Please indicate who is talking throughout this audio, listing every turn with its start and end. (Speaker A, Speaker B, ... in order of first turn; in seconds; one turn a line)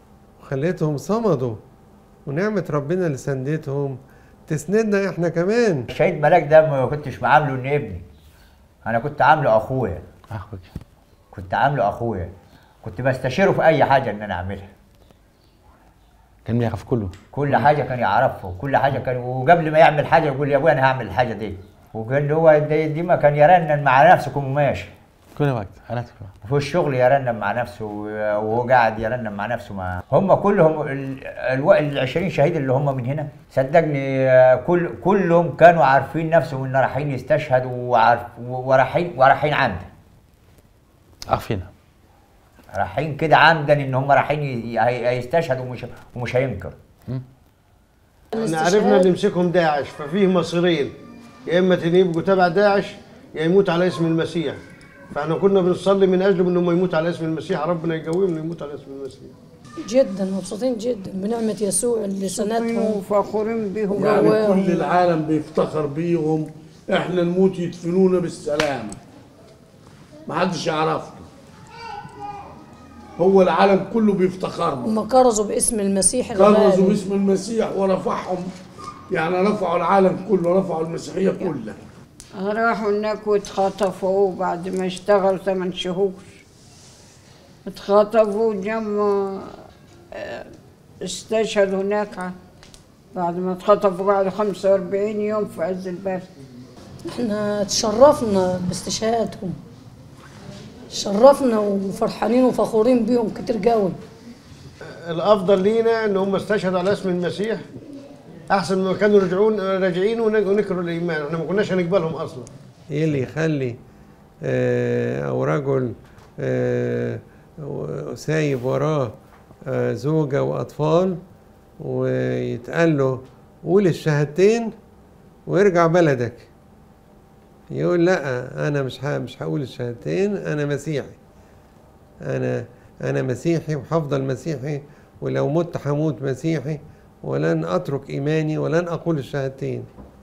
Speaker A: 0.4-1.6
Speaker A: 2.3-4.0
Speaker A: 4.5-5.8
Speaker B: 5.9-8.0
Speaker B: 8.8-10.1
Speaker C: 10.3-10.7
Speaker B: 11.3-12.3
Speaker B: 12.8-14.7
Speaker C: 16.4-17.7
Speaker B: 17.3-24.9
Speaker C: 25.4-26.3
Speaker B: 26.4-39.9
Speaker C: 41.3-41.7
Speaker B: 42.7-46.8
Speaker D: 48.3-49.1
Speaker E: 48.4-50.9
Speaker E: 51.5-54.6
Speaker E: 55.1-59.3
Speaker D: 59.9-63.0
Speaker F: 62.3-64.6
Speaker G: 64.0-69.0
Speaker D: 64.2-64.6
Speaker G: 70.3-71.3
Speaker G: 73.2-74.9
Speaker D: 74.8-77.0
Speaker G: 76.3-78.5
Speaker G: 79.1-81.8
Speaker F: 82.4-86.4
Speaker F: 87.7-89.5
Speaker F: 90.1-90.5
Speaker F: 91.0-92.3
Speaker F: 93.1-96.3
Speaker D: 97.1-99.6
Speaker D: 100.9-104.0
Speaker E: 105.1-107.6
Speaker E: 108.5-112.5
Speaker A: 112.9-113.7
Speaker A: 114.5-115.9
Speaker A: 116.4-119.1
Speaker A: 119.7-121.2
Speaker A: 121.8-123.2
Speaker A: 123.7-124.7
Speaker A: 125.5-126.5
Speaker A: 127.8-131.2
Speaker A: 132.3-139.8